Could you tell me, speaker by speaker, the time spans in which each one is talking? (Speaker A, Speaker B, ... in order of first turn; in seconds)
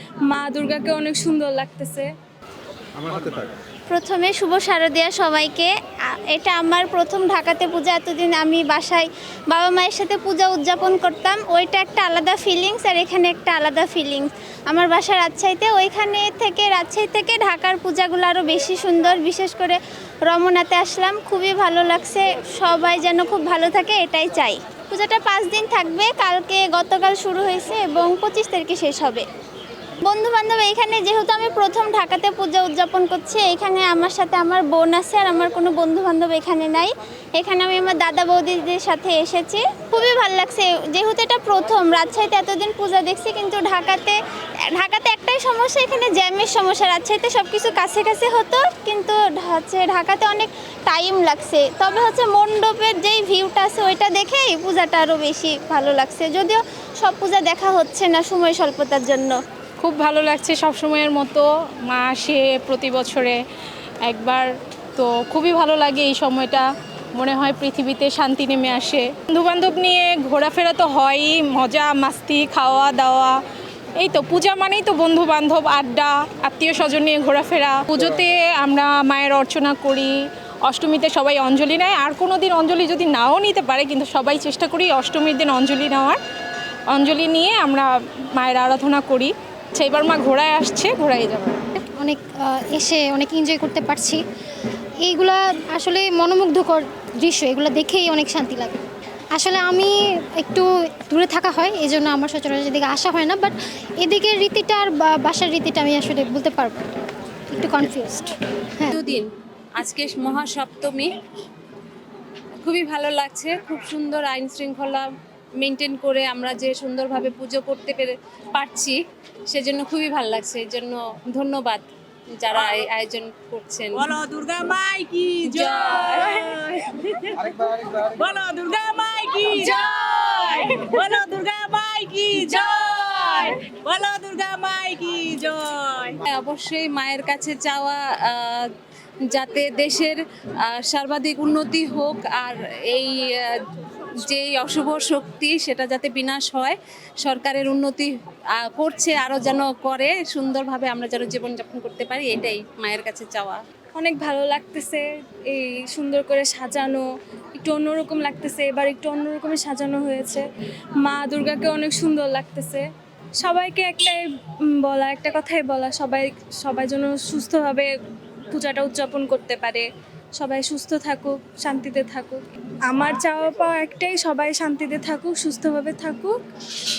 Speaker A: 0.3-2.1, 153.9-160.4, 161.0-162.8, 163.4-164.2, 164.8-167.9, 168.5-169.8, 170.4-176.3
Speaker B: 3.9-29.2, 30.0-44.2, 44.7-59.4
Speaker C: 59.8-63.4, 64.1-73.4, 74.0-80.1, 80.7-86.2, 86.9-87.8, 88.4-91.6
Speaker D: 92.0-94.2, 95.0-98.8, 99.3-106.9, 107.5-108.3
Speaker E: 108.9-111.1, 112.6-115.1, 115.6-124.1, 125.4-126.5, 136.3-138.6, 139.3-143.5, 144.2-153.6
Speaker F: 122.5-122.8, 123.9-136.2